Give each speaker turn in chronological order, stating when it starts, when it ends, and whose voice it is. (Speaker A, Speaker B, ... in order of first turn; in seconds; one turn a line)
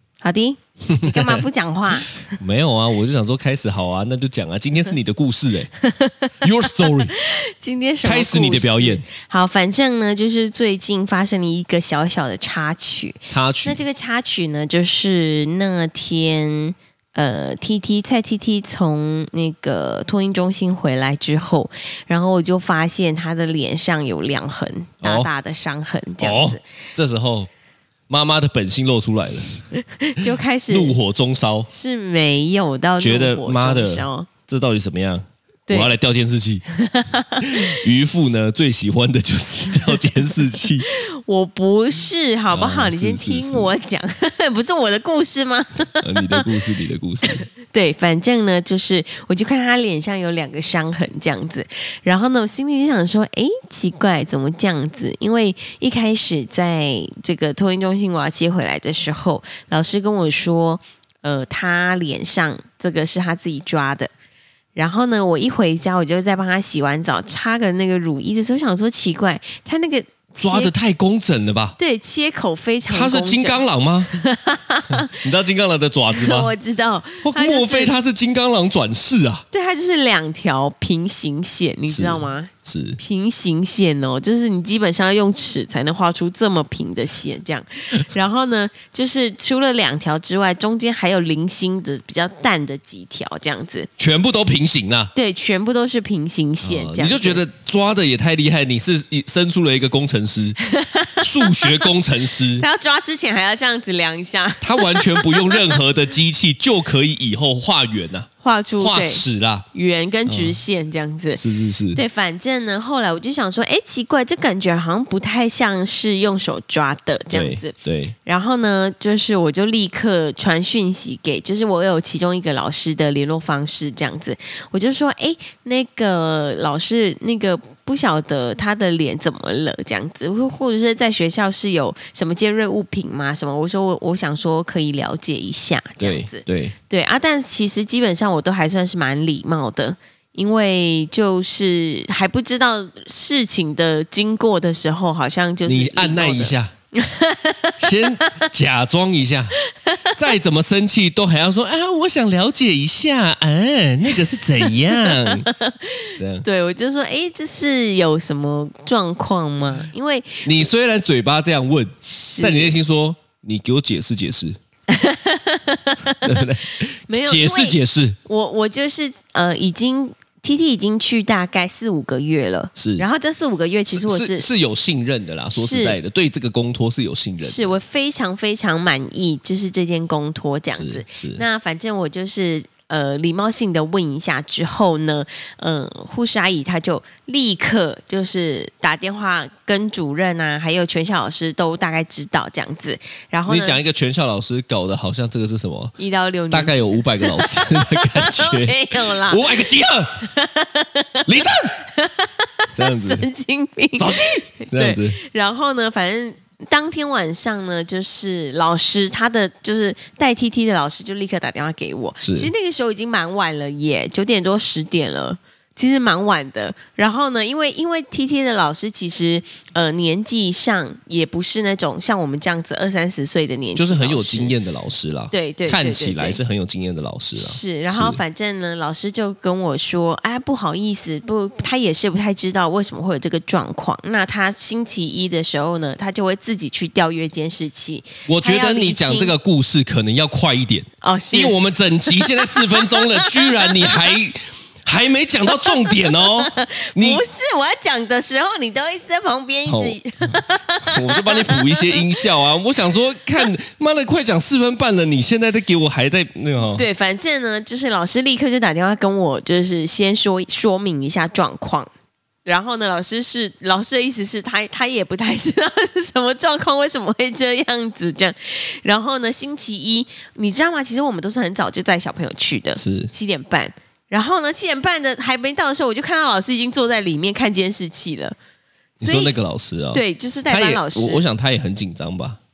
Speaker A: 0.2-2.2
Speaker B: 0.9-1.4
Speaker B: 2.3-5.7
Speaker A: 5.8-6.4
Speaker B: 6.4-7.1
Speaker A: 7.1-26.6
Speaker B: 8.0-9.1
Speaker B: 13.3-13.8
Speaker B: 25.0-25.3
Speaker B: 26.2-27.5
Speaker B: 28.1-29.6
Speaker A: 29.8-30.9
Speaker B: 30.7-31.7
Speaker A: 31.7-34.3
Speaker B: 33.0-36.6
Speaker A: 36.8-37.8
Speaker B: 37.4-40.9
Speaker A: 40.8-46.5
Speaker B: 42.5-43.7
Speaker B: 46.0-47.4
Speaker A: 47.7-64.1
Speaker A: 64.8-70.7
Speaker B: 70.4-71.8
Speaker A: 71.8-73.6
Speaker B: 72.9-74.2
Speaker A: 74.1-75.1
Speaker B: 74.9-76.5
Speaker A: 76.1-77.9
Speaker B: 77.2-79.4
Speaker A: 79.5-93.9
Speaker B: 81.9-83.0
Speaker B: 94.0-95.1
Speaker A: 95.1-97.4
Speaker B: 96.6-100.6
Speaker A: 100.7-101.9
Speaker B: 101.2-102.6
Speaker A: 102.5-105.8
Speaker B: 104.6-109.7
Speaker A: 108.4-111.4
Speaker B: 110.3-110.6
Speaker B: 111.3-112.0
Speaker A: 111.9-117.7
Speaker B: 117.3-118.2
Speaker A: 118.2-148.0
Speaker B: 136.0-136.8
Speaker B: 145.7-146.7
Speaker B: 147.8-149.6
Speaker A: 149.7-150.2
Speaker B: 150.2-155.5
Speaker A: 154.6-160.5
Speaker B: 156.2-156.5
Speaker B: 160.4-164.6
Speaker A: 162.0-162.8
Speaker A: 164.9-174.5
Speaker B: 166.2-168.2
Speaker B: 172.8-173.0
Speaker B: 173.9-177.7
Speaker A: 175.5-176.0
Speaker A: 177.4-193.8
Speaker B: 180.7-181.4
Speaker B: 193.5-195.9
Speaker A: 196.0-224.5
Speaker B: 196.5-200.3
Speaker B: 201.2-201.8
Speaker B: 202.7-203.3
Speaker B: 204.0-205.2
Speaker B: 212.2-212.5
Speaker B: 223.8-228.2
Speaker A: 225.3-226.4
Speaker A: 227.3-239.3
Speaker B: 238.3-247.2
Speaker A: 241.0-244.1
Speaker A: 245.5-252.2
Speaker B: 249.7-256.9
Speaker A: 256.8-261.9
Speaker A: 262.5-278.4
Speaker B: 272.8-273.1
Speaker A: 279.0-279.3
Speaker B: 279.0-282.4
Speaker A: 279.9-281.2